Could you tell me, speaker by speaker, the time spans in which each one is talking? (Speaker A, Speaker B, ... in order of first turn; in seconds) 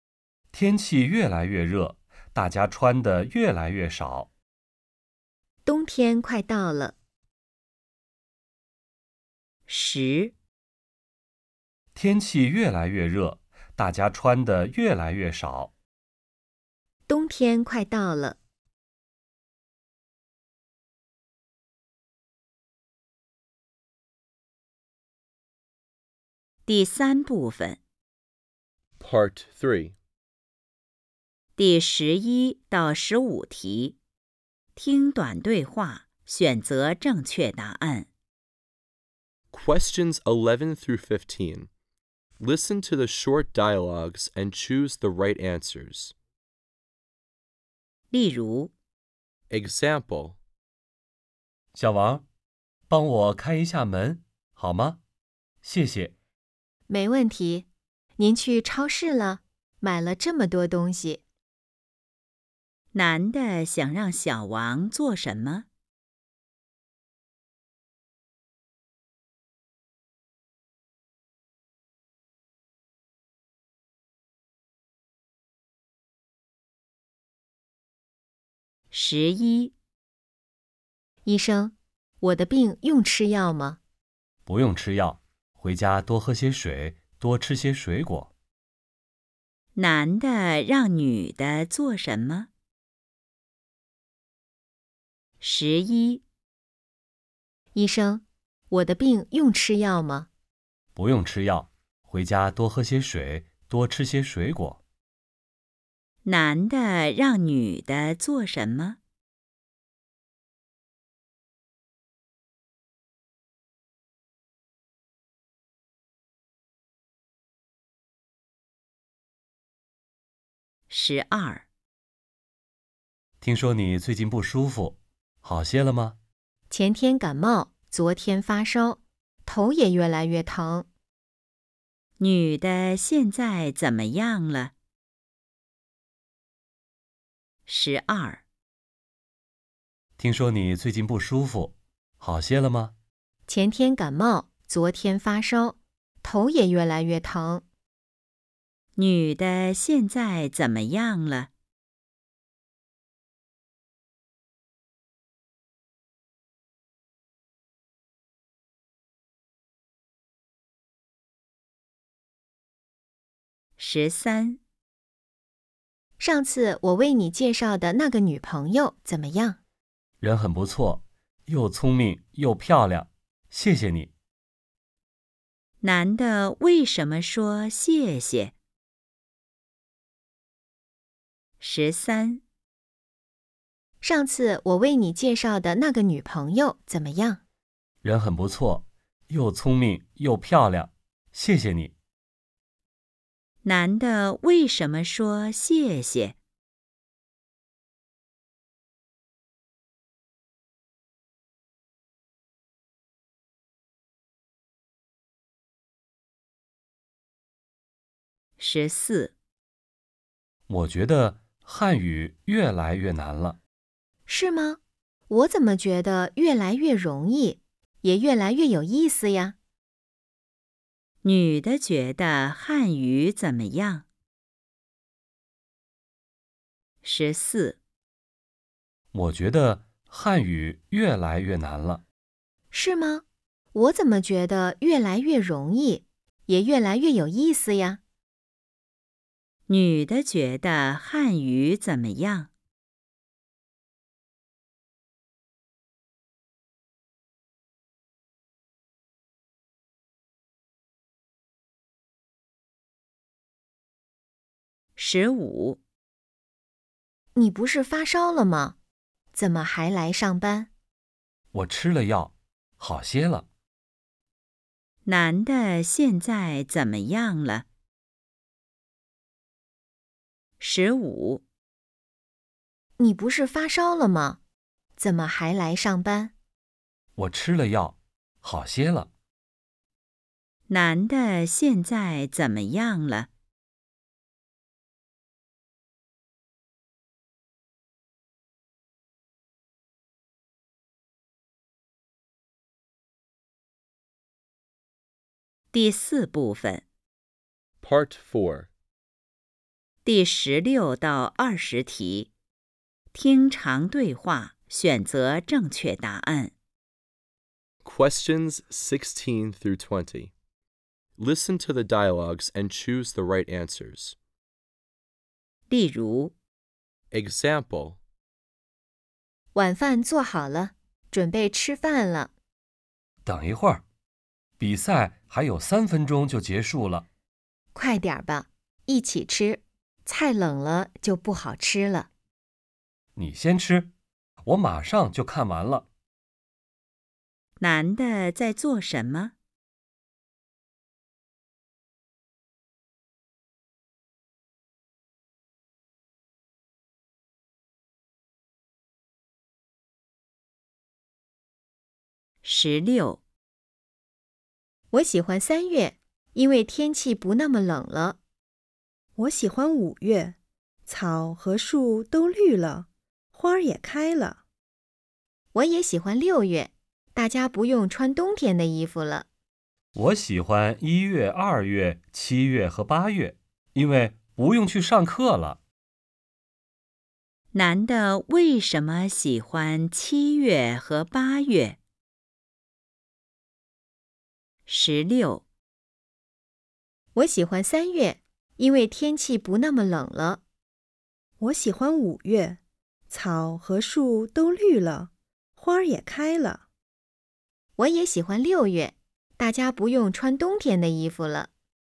Speaker A: 0.5-4.3, 11.9-15.7, 51.7-52.3, 52.9-55.0, 55.6-56.1, 84.5-88.3, 101.0-104.8, 123.4-126.2, 140.2-142.9, 170.2-174.1, 188.0-191.9, 210.7-213.6, 229.1-232.0, 261.5-263.5, 277.2-279.1, 323.2-323.8, 324.6-327.1, 333.1-333.9, 334.4-335.9, 369.9-375.6
Speaker B: 5.7-7.0, 17.1-18.4, 56.9-57.7, 58.2-61.2, 81.2-83.8, 97.7-100.3, 126.7-130.9, 143.5-147.6, 166.2-169.6, 184.0-187.4, 214.3-219.6, 232.7-238.0, 257.4-258.8, 259.3-260.7, 273.0-274.4, 275.0-276.3, 319.6-322.3, 327.8-332.1, 354.9-358.2, 365.5-369.3, 387.1-390.4, 397.8-401.5
Speaker C: 9.7-10.3, 26.7-27.8, 31.6-34.0, 34.8-38.1, 48.1-48.7, 62.9-65.7, 78.9-79.8, 89.8-92.5, 95.4-96.2, 106.2-109.0, 120.9-121.7, 132.2-134.7, 137.7-138.4, 149.0-151.5, 163.8-164.6, 175.8-178.5, 181.6-182.4, 193.6-196.4, 208.6-209.3, 221.2-224.1, 227.0-227.8, 239.7-242.5, 255.0-255.8, 265.1-267.7, 270.6-271.4, 280.7-283.3, 295.7-296.9, 300.1-302.3, 303.1-306.5, 315.7-316.4, 337.6-339.3, 352.4-353.2, 377.5-381.8, 384.7-385.4
Speaker D: 29.0-30.0, 39.5-41.7, 42.4-46.1, 49.5-50.4, 297.8-298.7, 307.8-310.3, 311.2-314.2, 317.1-318.0
Speaker E: 359.2-360.4, 360.9-364.4, 391.4-392.6, 393.1-396.6